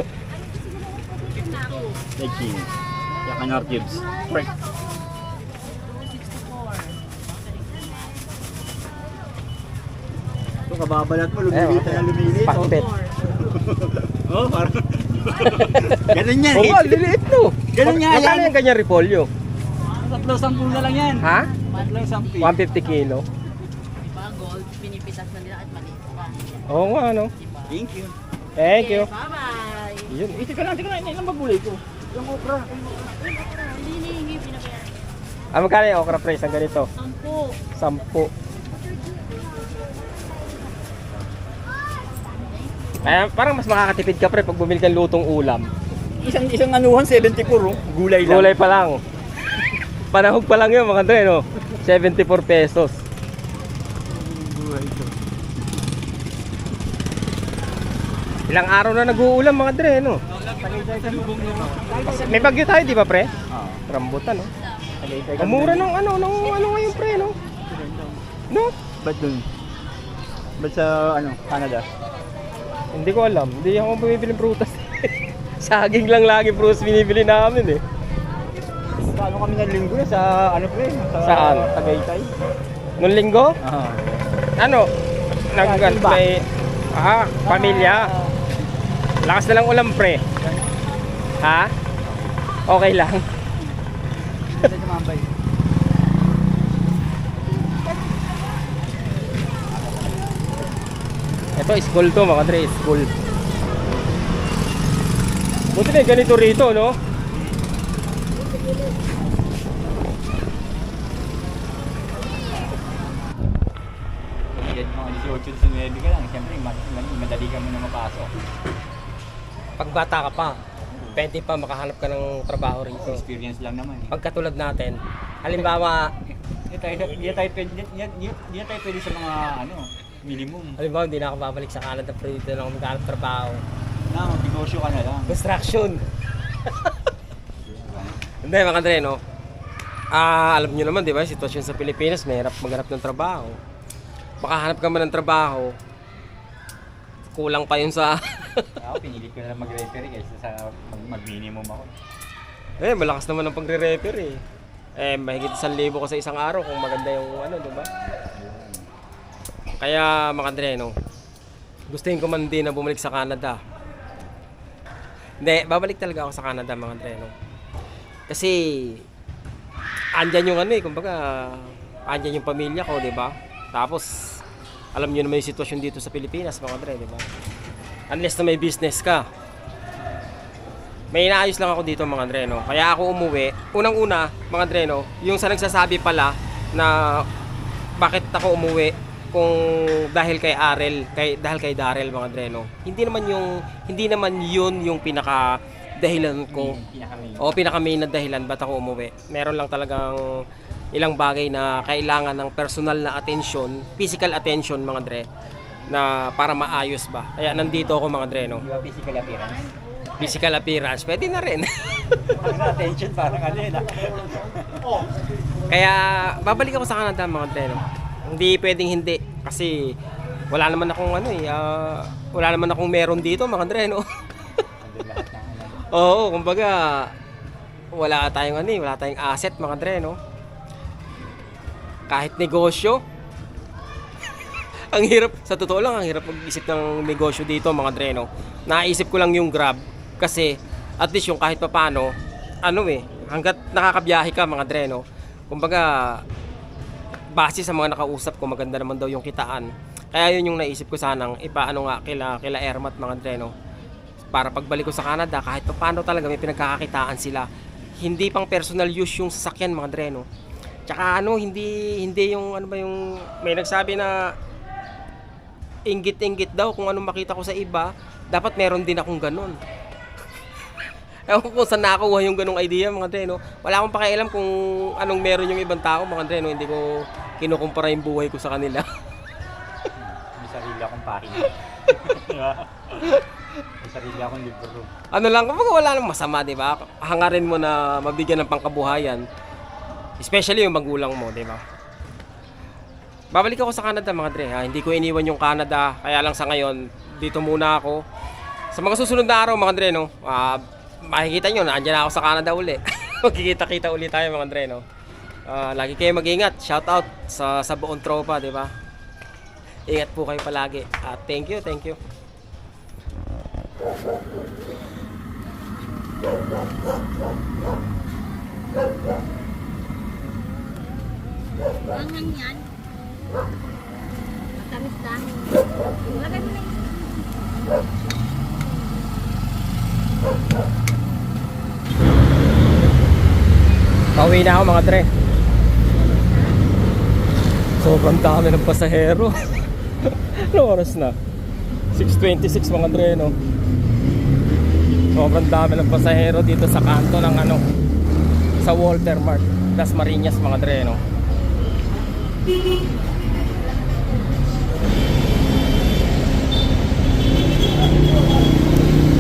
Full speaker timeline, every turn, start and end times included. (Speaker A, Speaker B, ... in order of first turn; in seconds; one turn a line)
Speaker A: 1.1-2.0
Speaker B: 2.2-2.7
Speaker B: 3.2-4.5
Speaker A: 4.2-8.3
Speaker B: 10.7-12.7
Speaker C: 11.5-12.9
Speaker A: 12.4-13.3
Speaker B: 13.4-17.0
Speaker C: 15.4-19.3
Speaker B: 17.7-18.5
Speaker B: 20.0-22.5
Speaker A: 20.7-22.5
Speaker C: 21.2-21.5
Speaker C: 22.4-23.2
Speaker A: 24.0-26.8
Speaker C: 26.7-27.3
Speaker A: 27.4-27.7
Speaker B: 27.7-28.1
Speaker C: 28.6-29.1
Speaker A: 28.6-30.1
Speaker B: 30.1-32.7
Speaker A: 32.7-35.1
Speaker C: 35.5-36.9
Speaker A: 37.0-37.6
Speaker C: 37.7-38.3
Speaker A: 42.2-42.7
Speaker C: 43.0-45.7
Speaker B: 46.2-48.6
Speaker C: 48.2-49.0
Speaker C: 50.1-53.0
Speaker B: 54.0-55.1
Speaker C: 58.5-60.2
Speaker B: 60.6-62.6
Speaker C: 62.1-63.3
Speaker B: 63.5-63.8
Speaker C: 63.9-64.5
Speaker B: 65.0-65.9
Speaker C: 65.4-67.4
Speaker A: 66.6-67.4
Speaker B: 67.7-68.2
Speaker B: 69.0-69.5
Speaker B: 70.6-71.9
Speaker C: 72.9-77.8
Speaker B: 79.1-82.3
Speaker C: 81.2-82.0
Speaker C: 83.0-83.5
Speaker B: 83.6-84.5
Speaker C: 84.6-84.9
Speaker C: 85.5-88.1
Speaker B: 85.5-86.2
Speaker B: 87.4-88.5
Speaker C: 89.2-90.2
Speaker C: 91.4-91.7
Speaker B: 92.0-92.5
Speaker C: 92.7-93.2
Speaker B: 94.4-95.3
Speaker B: 99.7-100.7
Speaker C: 101.5-103.1
Speaker C: 105.7-107.0
Speaker B: 114.5-118.3
Speaker C: 119.8-120.6
Speaker B: 120.9-121.2
Speaker C: 121.1-123.2
Speaker B: 122.9-124.1
Speaker C: 124.1-126.1
Speaker B: 126.7-130.8
Speaker C: 130.8-133.6
Speaker B: 134.1-135.4
Speaker C: 135.3-136.0
Speaker B: 137.6-138.2
Speaker C: 138.4-139.2
Speaker C: 140.1-143.6
Speaker C: 144.4-145.8
Speaker C: 147.3-148.7
Speaker B: 148.8-151.9
Speaker C: 152.8-154.4
Speaker C: 154.9-157.9
Speaker B: 158.3-158.9
Speaker C: 159.8-160.9
Speaker C: 161.9-163.6
Speaker C: 165.4-167.3
Speaker C: 168.3-169.0
Speaker C: 170.2-174.4
Speaker C: 174.9-177.2
Speaker C: 178.1-179.2
Speaker C: 181.1-187.2
Speaker C: 188.0-196.8
Speaker B: 196.5-197.5
Speaker C: 197.4-200.2
Speaker C: 200.9-205.3
Speaker C: 205.9-208.6
Speaker B: 208.4-209.7
Speaker C: 210.2-212.3
Speaker B: 212.3-214.9
Speaker C: 215.7-219.9
Speaker C: 220.5-224.0
Speaker B: 224.8-225.8
Speaker C: 225.9-227.1
Speaker C: 227.9-230.2
Speaker C: 232.1-233.0
Speaker C: 234.9-246.2
Speaker C: 247.3-253.5
Speaker C: 254.3-257.5
Speaker C: 258.0-260.2
Speaker C: 260.9-264.2
Speaker C: 265.9-269.6
Speaker C: 271.3-278.9
Speaker B: 279.9-283.2
Speaker B: 283.8-284.9
Speaker C: 285.1-289.2
Speaker C: 290.2-291.6
Speaker C: 293.3-298.0
Speaker C: 298.7-304.8
Speaker C: 305.4-308.7
Speaker C: 309.9-312.0
Speaker A: 321.9-322.6
Speaker A: 324.6-326.8
Speaker C: 334.1-335.1
Speaker C: 337.8-341.1
Speaker C: 341.9-343.3
Speaker C: 345.1-347.6
Speaker C: 348.6-351.0